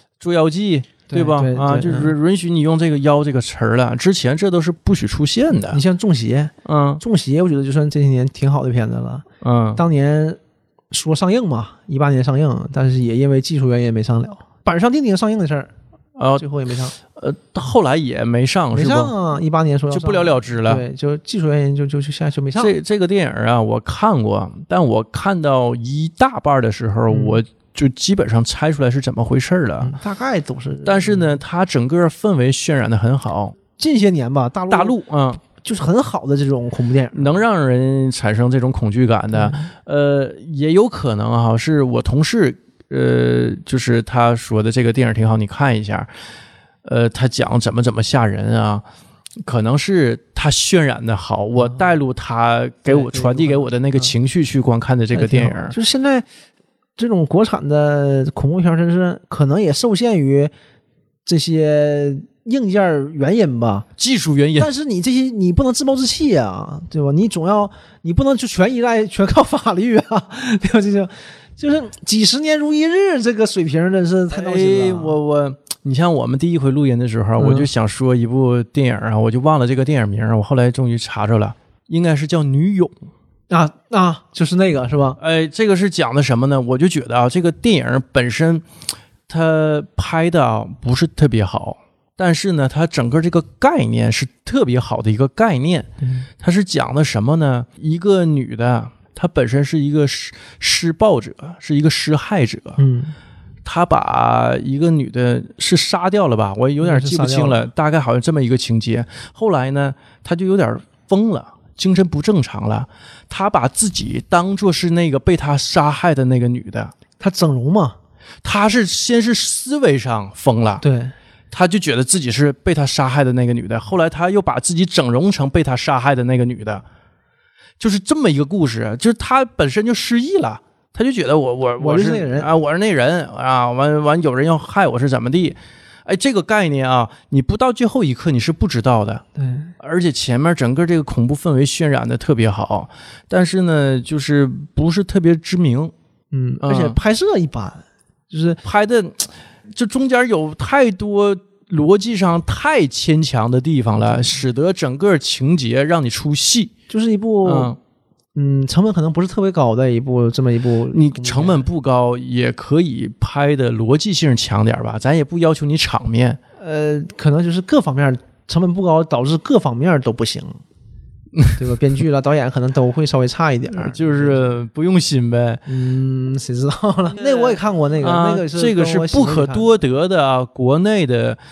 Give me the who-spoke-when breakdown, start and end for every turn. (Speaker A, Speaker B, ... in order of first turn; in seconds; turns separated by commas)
Speaker A: 0.2-5.8, Speaker B: 1.1-2.1, Speaker B: 5.6-9.2, Speaker A: 6.7-7.0, Speaker A: 9.4-9.8, Speaker B: 9.8-10.4, Speaker B: 10.9-15.7, Speaker A: 16.2-16.5, Speaker B: 16.4-16.9, Speaker A: 17.1-19.1, Speaker B: 18.7-22.7, Speaker A: 19.9-20.8, Speaker A: 22.6-29.9, Speaker B: 27.1-27.4, Speaker B: 29.8-31.4, Speaker A: 30.8-33.6, Speaker B: 33.8-37.4, Speaker A: 34.7-35.4, Speaker A: 37.1-46.1, Speaker B: 39.3-39.7, Speaker A: 46.8-48.8, Speaker A: 49.4-55.8, Speaker B: 52.9-54.1, Speaker B: 55.1-56.3, Speaker B: 57.0-60.5, Speaker B: 61.3-63.9, Speaker A: 64.0-64.7, Speaker B: 64.6-75.2, Speaker A: 74.3-83.1, Speaker B: 77.4-77.7, Speaker B: 83.5-85.2, Speaker A: 85.2-88.6, Speaker A: 89.3-102.8, Speaker B: 96.0-96.3, Speaker B: 102.8-103.2, Speaker A: 103.7-117.0, Speaker B: 106.8-107.7, Speaker B: 117.2-118.0, Speaker A: 118.4-120.8, Speaker B: 120.8-121.1, Speaker A: 121.5-126.8, Speaker A: 127.8-139.2, Speaker B: 131.8-132.5, Speaker B: 139.4-139.7, Speaker A: 139.8-145.9, Speaker B: 146.3-148.6, Speaker A: 146.6-147.0, Speaker A: 148.6-156.7, Speaker B: 156.9-157.8, Speaker A: 157.4-157.8, Speaker B: 158.4-161.7, Speaker A: 160.9-166.4, Speaker B: 166.6-170.6, Speaker B: 171.6-174.5, Speaker A: 173.7-175.6, Speaker B: 175.7-179.7, Speaker A: 177.2-181.4